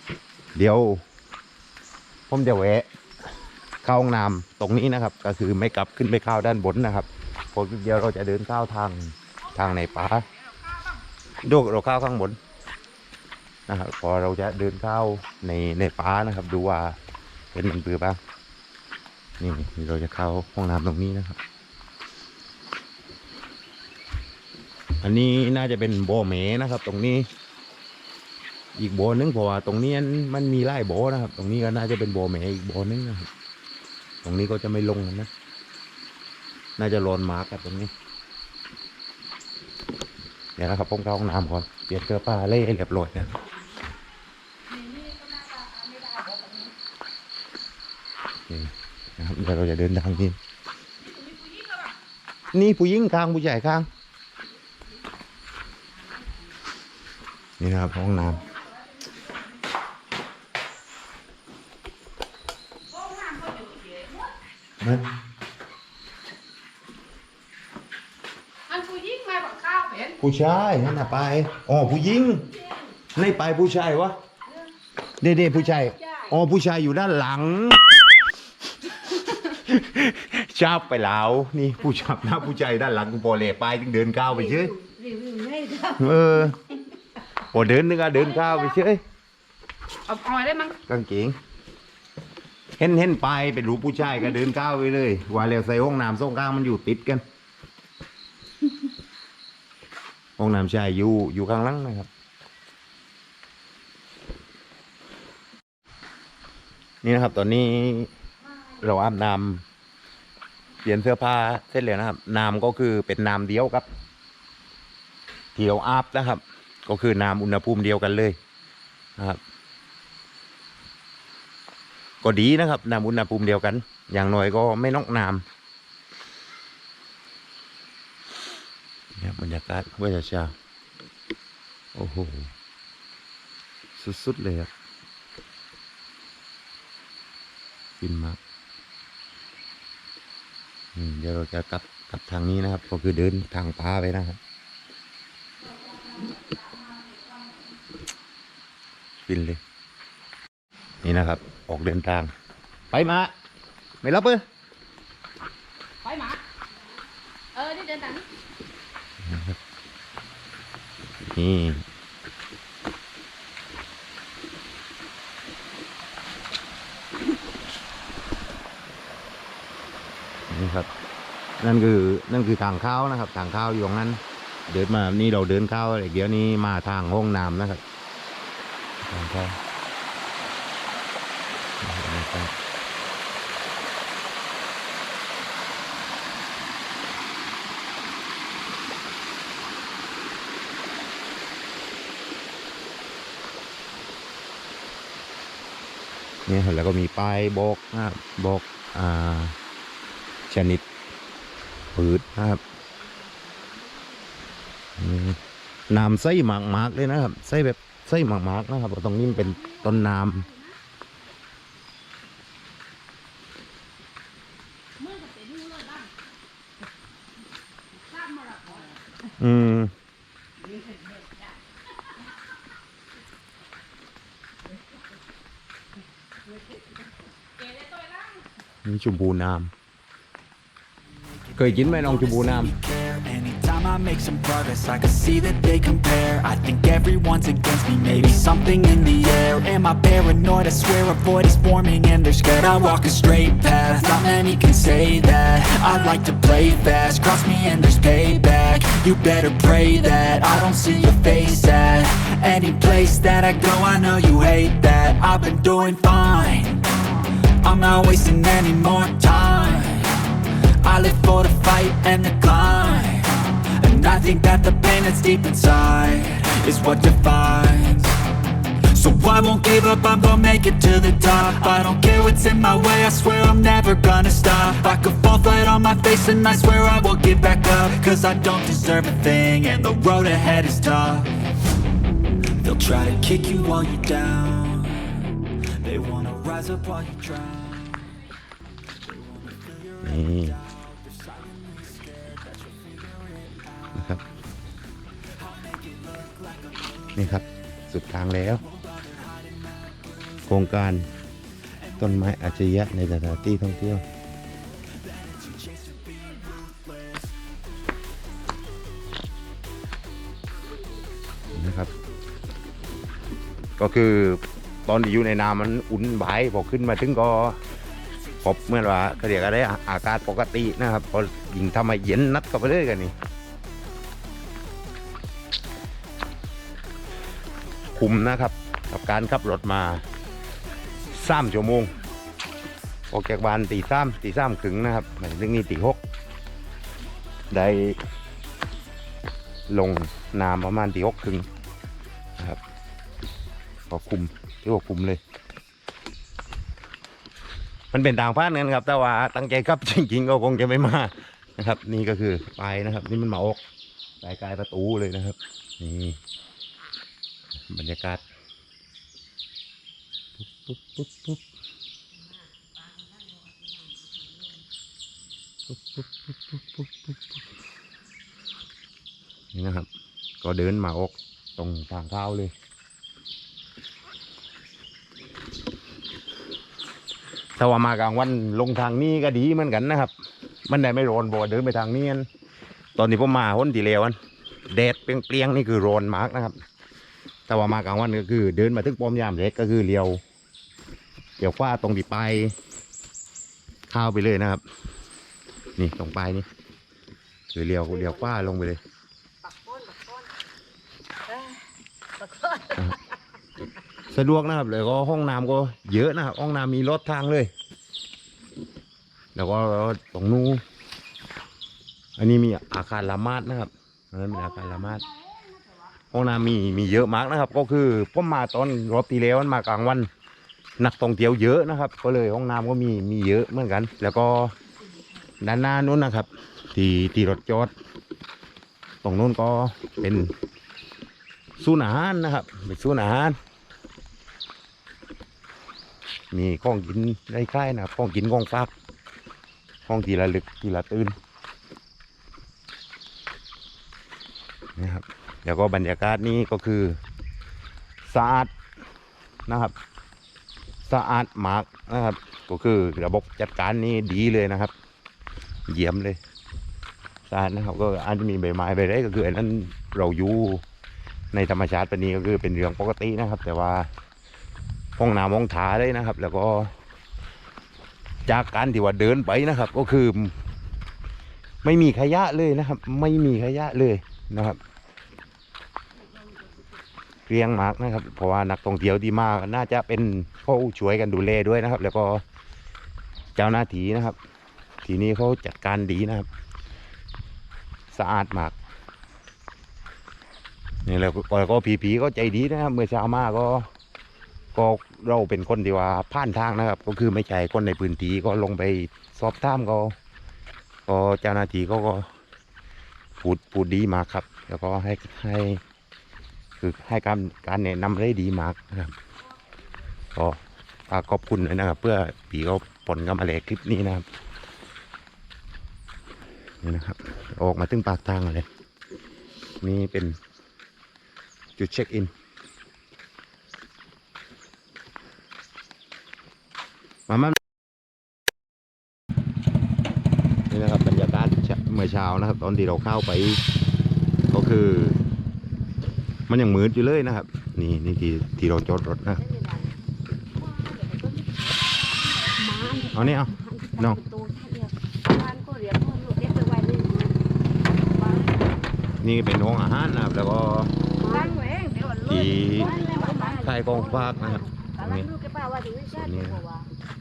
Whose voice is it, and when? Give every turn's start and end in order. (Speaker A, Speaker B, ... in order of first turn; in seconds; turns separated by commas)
Speaker A: 0.5-1.0, Speaker A: 2.3-2.9, Speaker A: 3.8-10.3, Speaker A: 11.4-12.4, Speaker A: 13.7-17.0, Speaker A: 17.5-18.2, Speaker A: 19.4-21.4, Speaker A: 25.0-27.3, Speaker A: 28.8-33.3, Speaker A: 34.2-35.3, Speaker A: 36.8-37.9, Speaker A: 40.6-43.4, Speaker B: 44.8-46.7, Speaker A: 48.5-50.4, Speaker C: 51.1-51.9, Speaker A: 52.5-53.9, Speaker A: 57.6-58.5, Speaker B: 63.0-64.1, Speaker C: 68.7-70.1, Speaker B: 69.4-70.1, Speaker A: 70.2-72.5, Speaker A: 73.1-74.2, Speaker A: 75.2-78.0, Speaker A: 79.5-84.7, Speaker D: 84.3-86.2, Speaker A: 86.0-86.5, Speaker A: 87.5-89.0, Speaker C: 90.1-90.8, Speaker A: 90.9-91.4, Speaker A: 92.8-97.2, Speaker A: 100.4-102.1, Speaker A: 107.0-108.1, Speaker A: 108.8-109.6, Speaker A: 110.8-113.8, Speaker A: 115.5-118.4, Speaker A: 122.2-125.4, Speaker A: 129.2-130.6, Speaker A: 131.9-132.5, Speaker A: 134.0-134.7, Speaker A: 138.0-138.4, Speaker A: 140.9-144.4, Speaker A: 149.3-149.6, Speaker A: 151.0-152.3, Speaker A: 152.9-153.3, Speaker A: 154.0-154.4, Speaker C: 156.1-156.4, Speaker B: 157.6-158.2, Speaker A: 159.2-159.6, Speaker A: 161.3-161.8, Speaker A: 170.5-170.9, Speaker A: 171.6-177.8, Speaker A: 179.0-179.6, Speaker A: 181.8-182.5, Speaker A: 196.5-199.6, Speaker A: 200.5-200.8, Speaker A: 201.9-202.6, Speaker A: 205.0-210.5, Speaker B: 215.1-216.1, Speaker B: 218.2-218.8, Speaker A: 219.4-219.9, Speaker B: 227.8-228.2, Speaker A: 228.8-229.7, Speaker C: 231.1-268.2, Speaker A: 231.6-232.7, Speaker C: 268.8-281.4, Speaker C: 282.6-288.2, Speaker C: 289.0-293.9, Speaker A: 290.0-290.6, Speaker A: 293.9-294.2, Speaker C: 295.4-297.1, Speaker A: 297.1-298.6, Speaker C: 298.7-299.6, Speaker A: 300.5-301.1, Speaker A: 302.0-304.0, Speaker C: 305.0-307.2, Speaker A: 311.5-311.9, Speaker A: 313.8-317.6, Speaker A: 318.4-323.1, Speaker A: 327.9-330.0, Speaker A: 331.1-331.9, Speaker A: 333.1-336.0, Speaker A: 337.5-338.0, Speaker A: 339.7-341.5, Speaker A: 343.9-345.2, Speaker A: 347.9-353.6, Speaker A: 354.2-356.2, Speaker A: 357.7-358.2, Speaker A: 360.5-361.4, Speaker D: 362.8-364.4, Speaker A: 365.7-366.1, Speaker A: 369.5-369.9, Speaker A: 370.4-372.5, Speaker A: 377.6-380.1, Speaker A: 380.7-382.3, Speaker A: 382.9-384.2, Speaker A: 384.7-386.6, Speaker A: 387.5-390.2, Speaker A: 391.4-392.5, Speaker A: 393.9-394.6, Speaker A: 395.8-396.4, Speaker A: 397.5-398.8, Speaker D: 397.9-398.5, Speaker D: 399.4-400.3, Speaker D: 401.3-401.6, Speaker D: 402.2-402.9, Speaker A: 404.1-407.5, Speaker A: 409.3-410.6, Speaker A: 412.2-415.1, Speaker A: 416.1-420.1, Speaker A: 420.8-424.5, Speaker A: 425.4-427.7, Speaker A: 429.0-430.3, Speaker A: 431.6-433.4, Speaker A: 436.3-438.7, Speaker A: 439.9-441.1, Speaker A: 444.8-447.0, Speaker A: 448.1-448.5, Speaker A: 449.5-449.7, Speaker A: 450.9-454.7, Speaker A: 455.7-456.2, Speaker A: 457.3-460.6, Speaker A: 461.3-463.9, Speaker A: 465.0-466.7, Speaker A: 468.3-470.3, Speaker A: 471.6-474.6, Speaker A: 477.3-482.2, Speaker A: 483.4-484.2, Speaker A: 484.8-486.3, Speaker A: 487.9-488.5, Speaker A: 490.8-493.7, Speaker A: 494.5-499.9, Speaker A: 500.9-502.1, Speaker A: 503.2-505.6, Speaker A: 506.6-508.9, Speaker A: 510.1-514.0, Speaker A: 516.6-518.5, Speaker A: 519.6-520.2, Speaker A: 521.6-522.1, Speaker A: 527.1-527.4, Speaker A: 530.5-533.4, Speaker A: 534.3-535.0, Speaker A: 536.3-539.2, Speaker D: 539.2-539.7, Speaker C: 541.8-542.3, Speaker D: 542.3-547.1, Speaker A: 542.9-544.0, Speaker D: 547.8-548.5, Speaker A: 549.0-550.7, Speaker D: 551.0-551.5, Speaker C: 551.1-553.4, Speaker D: 552.0-556.7, Speaker A: 552.0-552.7, Speaker A: 553.4-555.1, Speaker A: 556.0-556.4